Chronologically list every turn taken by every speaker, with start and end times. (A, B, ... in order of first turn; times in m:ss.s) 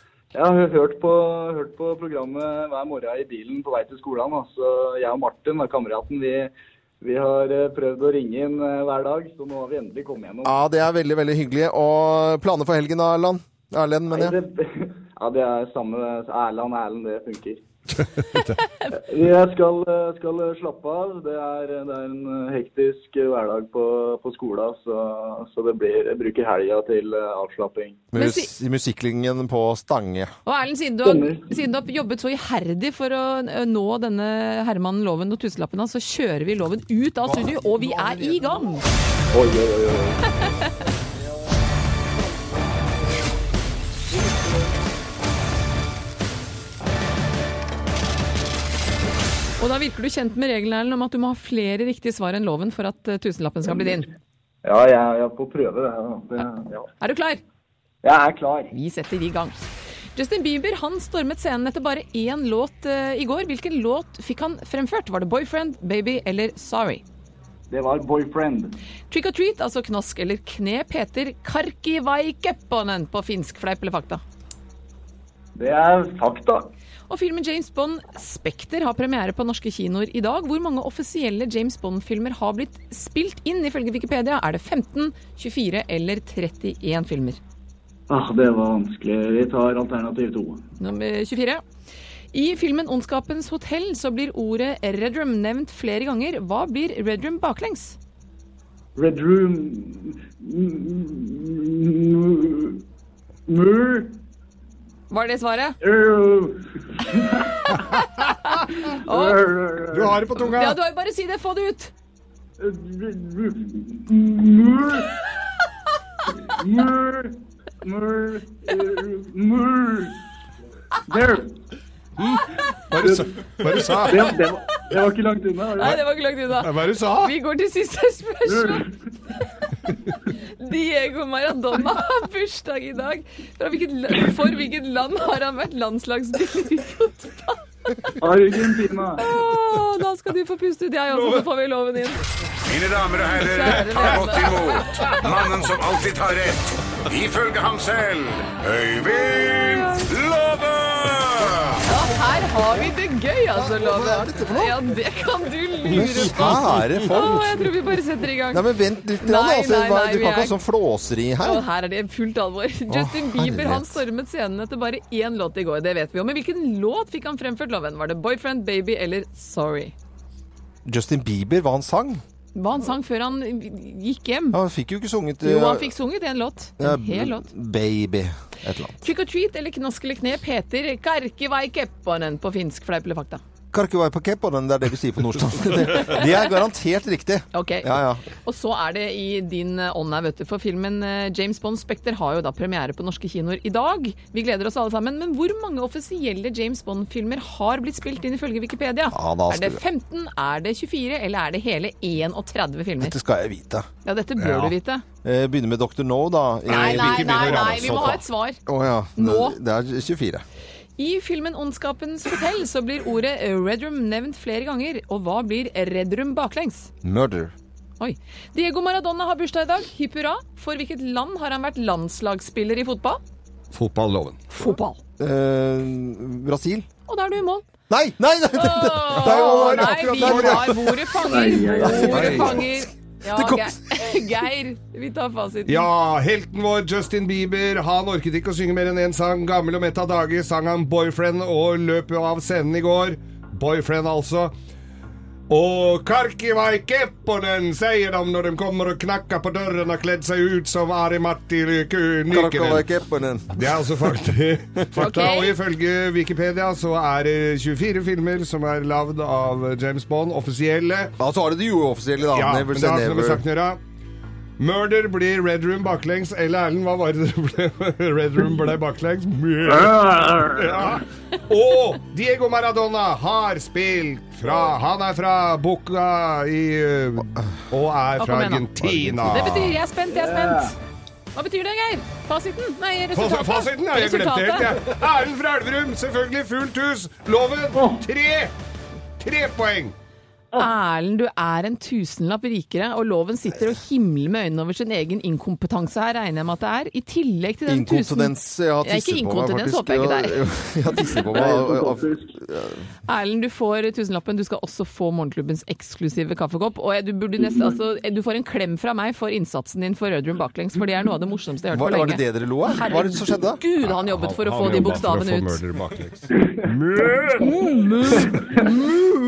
0:00.3-0:10.6 A
0:10.4-0:14.4 B
0:14.1-0:17.6 A
0:18.9-0:28.1 A
0:28.1-0:30.3 B
0:28.2-0:28.5 C
0:30.5-0:38.8 C
0:31.0-0:31.5 A
0:37.3-0:38.4 B
0:39.3-0:40.5 A
0:40.4-0:40.7 C
0:49.6-0:54.1 C
0:54.6-0:56.9 A
0:57.0-0:57.4 C
0:58.0-0:58.7 A
0:58.7-1:07.0 C
1:07.7-1:08.8 A
1:09.1-1:14.2 C
1:15.6-1:16.7 A
1:17.1-1:27.4 C
1:28.1-1:30.6 A
1:30.8-1:31.6 C
1:32.3-1:38.0 C
1:39.0-1:42.8 A
1:43.5-1:44.2 A
1:45.1-1:45.8 C
1:45.8-1:47.7 A
1:48.4-1:49.5 C
1:48.9-1:50.3 A
1:49.9-1:50.8 D
1:50.4-1:51.9 C
1:52.6-1:55.1 A
1:56.5-2:00.2 A
2:01.1-2:01.5 A
2:02.2-2:04.4 D
2:02.9-2:06.0 A
2:05.8-2:08.9 C
2:06.6-2:07.4 D
2:08.5-2:08.9 A
2:10.6-2:18.1 C
2:18.2-2:19.2 A
2:19.2-2:22.2 C
2:22.7-2:31.6 E
2:23.4-2:25.3 C
2:29.6-2:30.1 C
2:31.8-2:38.6 C
2:33.5-2:34.8 B
2:35.9-2:37.4 D
2:35.9-2:37.5 B
2:38.5-2:41.6 B
2:39.2-2:40.6 C
2:41.4-2:49.9 C
2:42.9-2:44.0 B
2:50.9-2:52.2 B
2:52.6-2:54.6 C
2:54.5-2:55.9 B
2:55.4-2:57.5 C
2:56.8-2:59.0 B
2:59.0-3:03.4 C
3:03.7-3:08.2 B
3:07.5-3:23.2 C
3:19.1-3:19.8 B
3:23.0-3:23.9 B
3:24.0-3:25.0 C
3:24.4-3:24.8 D
3:25.2-3:28.2 B
3:26.7-3:28.2 D
3:26.7-3:28.6 C
3:28.7-3:30.4 B
3:29.2-3:29.6 C
3:31.0-3:36.9 C
3:37.0-3:37.5 B
3:38.0-3:43.2 C
3:43.7-3:44.5 D
3:44.5-3:45.0 C
3:45.2-3:46.9 B
3:47.1-3:47.7 C
3:47.9-3:51.2 B
3:48.5-3:55.9 C
3:49.2-3:50.7 D
3:51.2-3:52.4 A
3:51.8-3:54.1 B
3:52.0-3:52.6 D
3:55.7-4:04.5 D
4:05.5-4:12.8 D
4:12.3-4:13.6 B
4:13.6-4:21.1 D
4:15.0-4:15.6 C
4:21.2-4:23.4 B
4:22.3-4:23.8 D
4:24.6-4:39.8 D
4:29.7-4:31.0 A
4:38.2-4:38.7 C
4:38.8-4:39.2 B
4:39.2-4:40.8 C
4:40.1-4:40.8 A
4:41.4-4:44.8 C
4:43.2-4:48.5 D
4:47.7-4:48.0 A
4:49.2-4:49.9 D
4:50.6-5:00.4 C
4:57.7-5:02.8 B
5:01.0-5:02.3 A
5:03.1-5:15.6 C
5:11.7-5:13.6 B
5:13.8-5:17.6 D
5:18.1-5:19.1 C